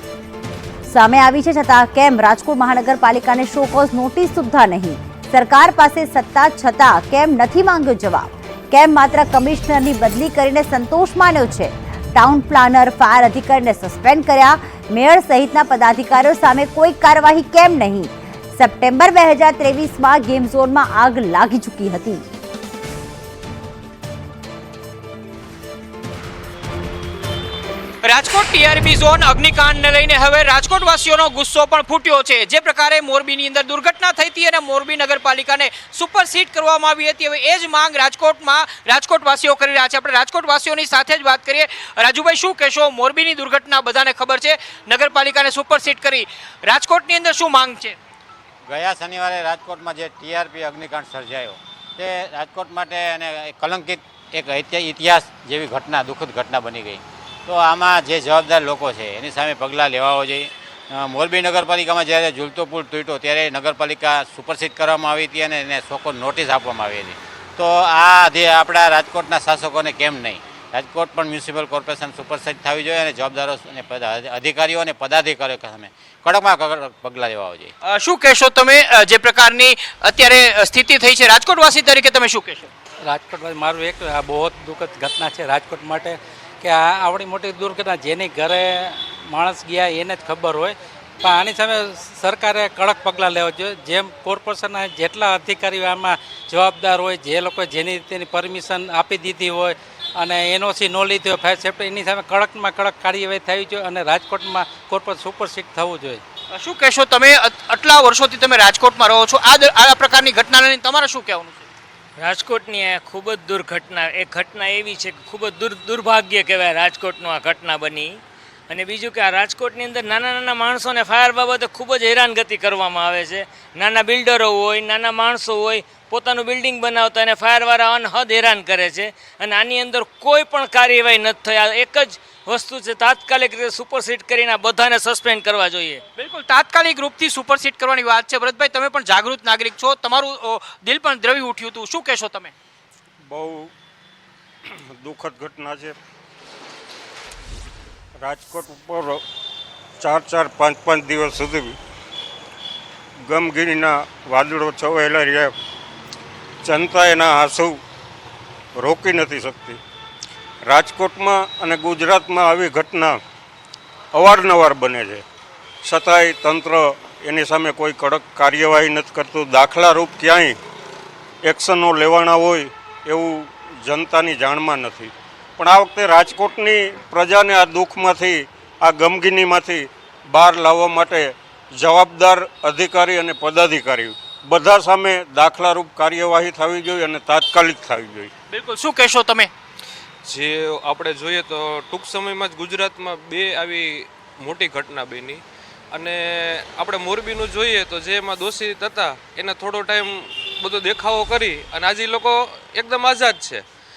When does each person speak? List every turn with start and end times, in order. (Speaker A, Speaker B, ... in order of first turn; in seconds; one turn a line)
Speaker A: 0.9-22.2
Speaker B: 28.0-48.0
Speaker C: 48.6-77.7
Speaker B: 77.8-82.7
Speaker D: 83.0-106.2
Speaker B: 106.5-111.6
Speaker E: 112.2-136.0
Speaker B: 136.2-142.5
Speaker F: 143.3-143.7
Speaker F: 144.7-146.0
Speaker F: 148.2-149.2
Speaker F: 150.0-151.8
Speaker F: 153.2-155.5
Speaker F: 156.6-157.8
Speaker F: 158.8-159.8
Speaker F: 160.6-163.2
Speaker F: 164.1-165.2
Speaker F: 165.8-170.6
Speaker F: 171.4-188.3
Speaker B: 188.5-189.5
Speaker G: 190.2-195.4
Speaker G: 195.9-203.6